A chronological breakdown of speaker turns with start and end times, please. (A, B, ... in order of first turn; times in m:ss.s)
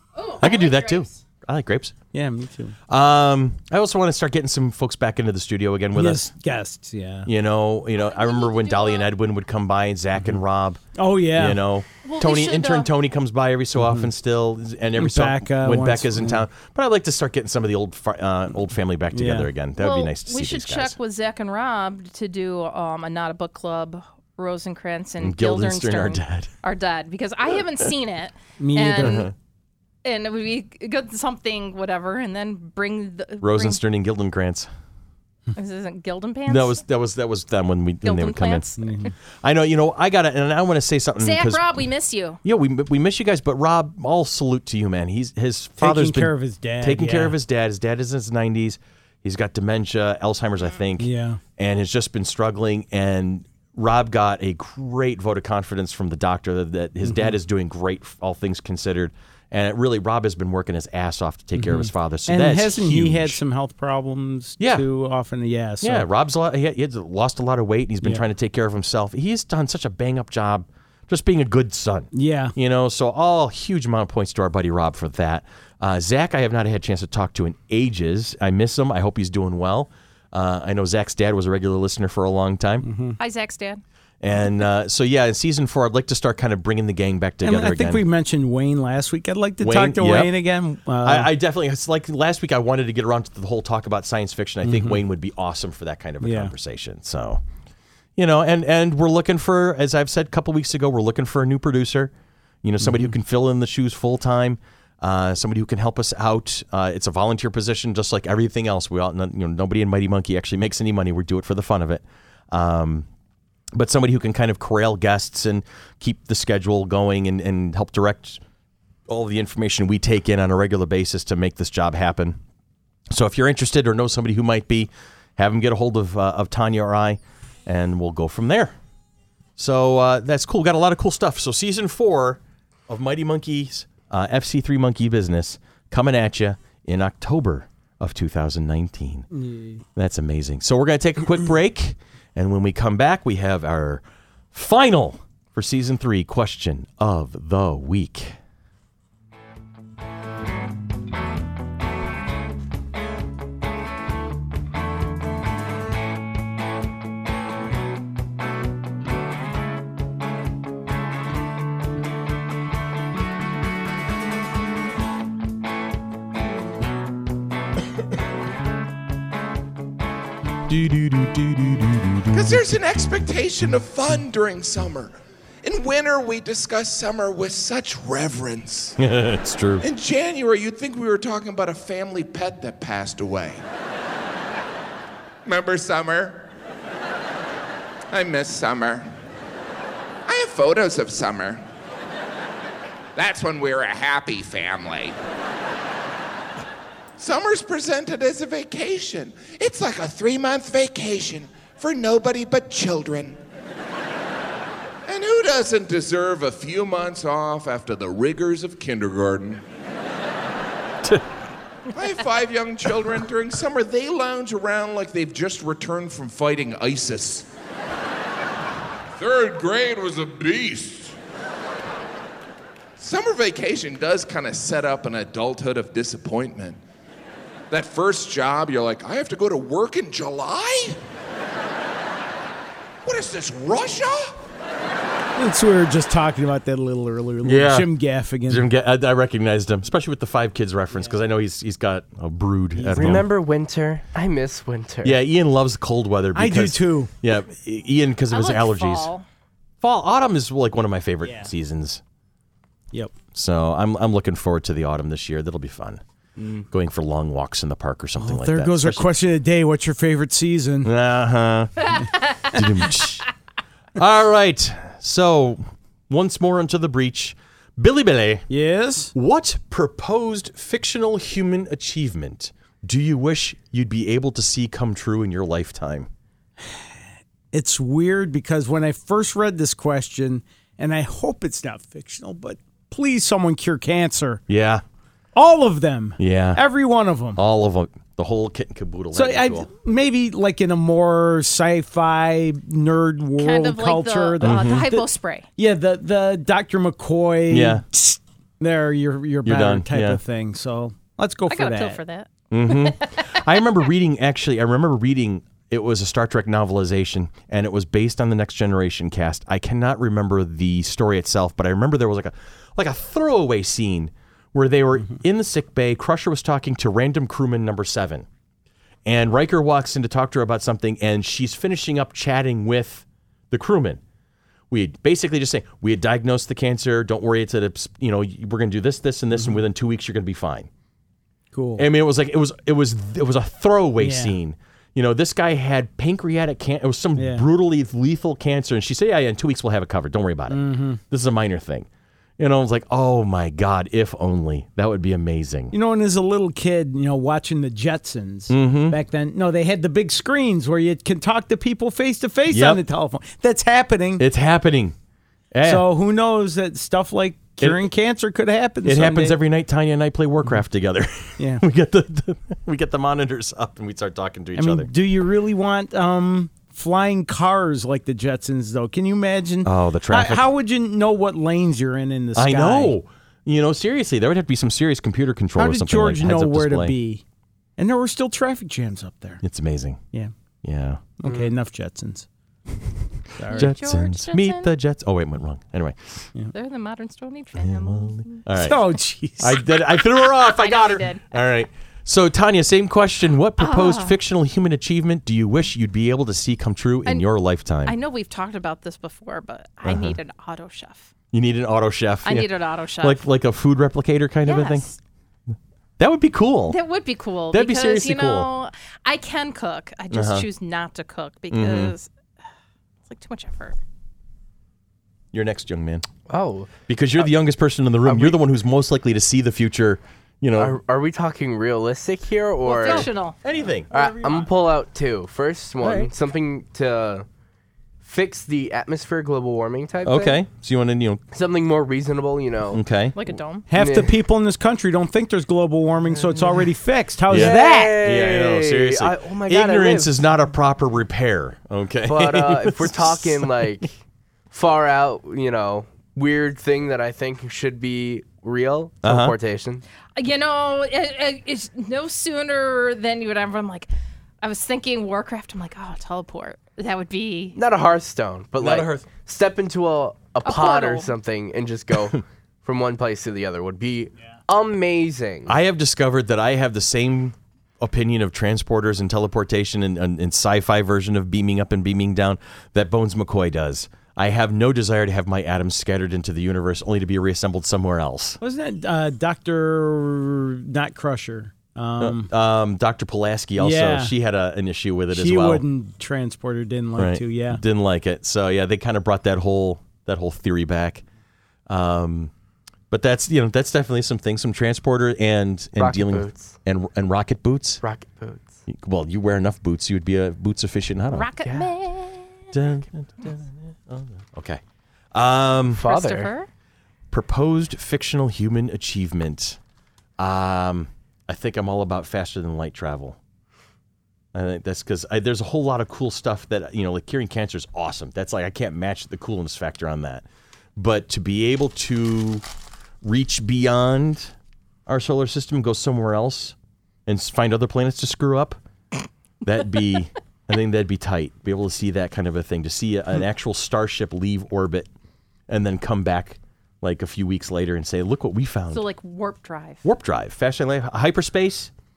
0:00.1-0:01.2 A
0:00.4-0:01.9 B
0:02.1-0:02.8 C
0:02.9-0:06.2 B
0:05.9-0:07.3 C
0:07.2-0:10.8 B
0:08.0-0:09.1 A
0:11.0-0:11.6 C
0:11.3-0:21.0 B
0:12.0-0:12.9 A
0:13.8-0:14.1 C
0:15.0-0:16.4 C
0:19.1-0:19.5 C
0:19.8-0:29.3 A
0:25.2-0:26.5 B
0:28.6-0:29.3 C
0:29.0-0:29.3 B
0:30.0-0:33.8 A
0:33.4-0:34.7 B
0:35.5-0:36.8 A
0:36.5-0:38.6 B
0:38.0-0:39.1 A
0:38.8-0:39.1 C
0:39.4-0:41.7 B
0:41.2-0:42.4 A
0:42.4-1:03.4 B
0:45.8-0:47.3 C
0:51.0-0:51.4 C
0:57.0-0:57.4 C
1:01.6-1:06.0 C
1:04.6-1:04.8 B
1:05.8-1:22.8 B
1:12.1-1:12.5 C
1:22.8-1:23.2 C
1:23.2-1:23.8 A
1:24.2-1:28.0 B
1:27.4-1:31.3 C
1:29.6-1:30.3 B
1:31.0-1:37.4 B
1:34.6-1:35.0 C
1:36.2-1:36.5 C
1:38.2-1:42.1 B
1:42.6-1:53.0 B
1:42.8-1:43.1 C
1:53.7-1:58.4 B
1:59.1-2:02.4 B
2:03.1-2:08.7 B
2:09.6-2:19.3 B
2:19.3-2:19.8 C
2:20.0-2:24.0 B
2:24.5-2:28.3 B
2:50.7-2:52.7 B
2:52.3-2:59.0 D
2:59.0-2:59.8 B
2:59.8-3:03.6 D
3:05.4-3:06.5 D
3:08.1-3:09.1 D
3:10.3-3:11.6 D
3:13.2-3:15.2 D
3:17.2-3:23.4 D
3:25.0-3:29.6 D
3:31.9-3:37.5 D
3:39.2-3:41.2 D
3:43.0-3:46.8 D
3:47.7-3:51.0 D
3:53.0-3:54.4 D
3:55.4-3:58.7 C
3:57.4-3:57.9 B
3:58.5-4:03.3 B
4:02.8-4:03.2 C
4:02.9-4:05.2 E
4:05.0-4:09.1 B
4:06.3-4:07.1 C
4:08.3-4:09.2 A
4:09.8-4:12.0 B
4:11.2-4:11.5 C
4:13.3-4:16.0 B
4:16.7-4:19.1 B
4:18.2-4:20.9 C
4:20.8-4:23.2 B
4:24.0-4:28.5 B
4:28.5-4:29.1 C
4:29.1-4:36.1 B
4:37.5-4:44.4 C
4:44.5-4:44.8 B
4:45.3-4:47.4 C
4:46.2-4:46.6 B
4:47.4-4:49.7 B
4:49.1-4:55.0 C
4:53.4-4:55.5 A
4:54.4-4:54.9 B
4:55.6-5:02.0 C
4:57.5-4:57.8 B
4:59.4-5:00.2 B
5:01.5-5:03.4 A
5:02.5-5:18.2 B
5:19.0-5:24.0 B
5:24.7-5:30.7 B
5:29.3-5:29.6 C
5:31.5-5:31.8 C
5:31.8-5:41.9 B
5:34.0-5:34.3 C
5:37.2-5:37.4 C
5:40.5-5:41.0 C
5:42.4-5:45.7 B
5:45.7-5:54.2 C
5:48.5-5:49.0 B
5:52.5-5:52.8 B
5:54.2-5:54.9 B
5:55.5-5:55.8 B
5:55.6-5:59.4 C
5:58.8-6:04.9 B
6:04.6-6:12.9 C
6:09.6-6:10.5 B
6:12.4-6:17.0 B
6:15.6-6:17.2 C
6:17.8-6:19.4 C
6:19.4-6:20.0 B
6:20.6-6:21.0 B
6:21.2-6:22.2 C
6:21.2-6:21.5 E
6:23.4-6:23.7 C
6:23.5-6:24.7 A
6:23.5-6:26.3 B
6:26.5-6:28.5 A
6:27.6-6:28.8 B
6:28.6-6:29.6 C
6:29.4-6:37.9 B
6:29.9-6:31.4 A
6:33.6-6:34.2 A
6:37.8-6:41.1 A
6:39.8-6:40.2 B
6:41.3-6:42.5 B
6:42.2-6:43.2 A
6:43.0-6:44.9 B
6:44.4-6:45.0 A
6:46.0-6:46.8 B
6:46.7-6:52.1 A
6:47.5-6:48.5 B
6:50.1-6:50.4 B
6:51.5-6:51.9 B
6:53.1-6:53.8 A
6:55.3-6:56.1 B
6:56.3-6:57.3 E
6:56.9-7:00.8 B
6:58.0-6:58.4 E
7:00.5-7:03.1 E
7:02.6-7:03.4 A
7:02.8-7:04.4 B
7:03.9-7:07.2 E
7:05.8-7:06.1 B
7:08.0-7:10.4 E
7:10.0-7:11.2 B
7:11.3-7:12.8 E
7:12.7-7:13.2 B
7:13.1-7:13.6 A
7:13.7-7:18.0 C
7:13.7-7:14.1 E
7:16.1-7:16.7 E
7:17.3-7:23.4 B
7:17.3-7:20.2 E
7:22.0-7:24.0 E
7:24.5-7:29.8 E
7:29.0-7:29.3 B
7:30.2-7:33.9 A
7:34.4-7:37.6 A
7:37.5-7:45.6 E
7:38.6-7:39.1 B
7:40.4-7:41.1 A
7:45.5-7:58.4 B
7:58.4-8:02.3 C
8:02.0-8:05.6 B
8:03.6-8:04.1 C
8:05.1-8:07.6 C
8:07.0-8:11.0 B
8:11.7-8:12.3 B
8:12.9-8:17.8 B
8:15.8-8:16.6 E
8:17.8-8:18.6 E
8:18.7-8:21.3 B
8:21.1-8:22.3 A
8:21.4-8:21.7 E
8:22.5-8:24.6 B
8:25.1-8:25.8 B
8:25.7-8:26.3 E
8:25.8-8:26.5 A
8:27.1-8:29.6 B
8:30.2-8:33.2 B
8:34.3-8:40.2 B
8:40.8-8:42.4 B
8:43.0-8:44.3 B
8:44.9-8:48.6 B
8:49.4-8:54.9 B
8:55.5-8:58.8 B
8:58.7-8:59.8 A
8:59.8-9:01.7 B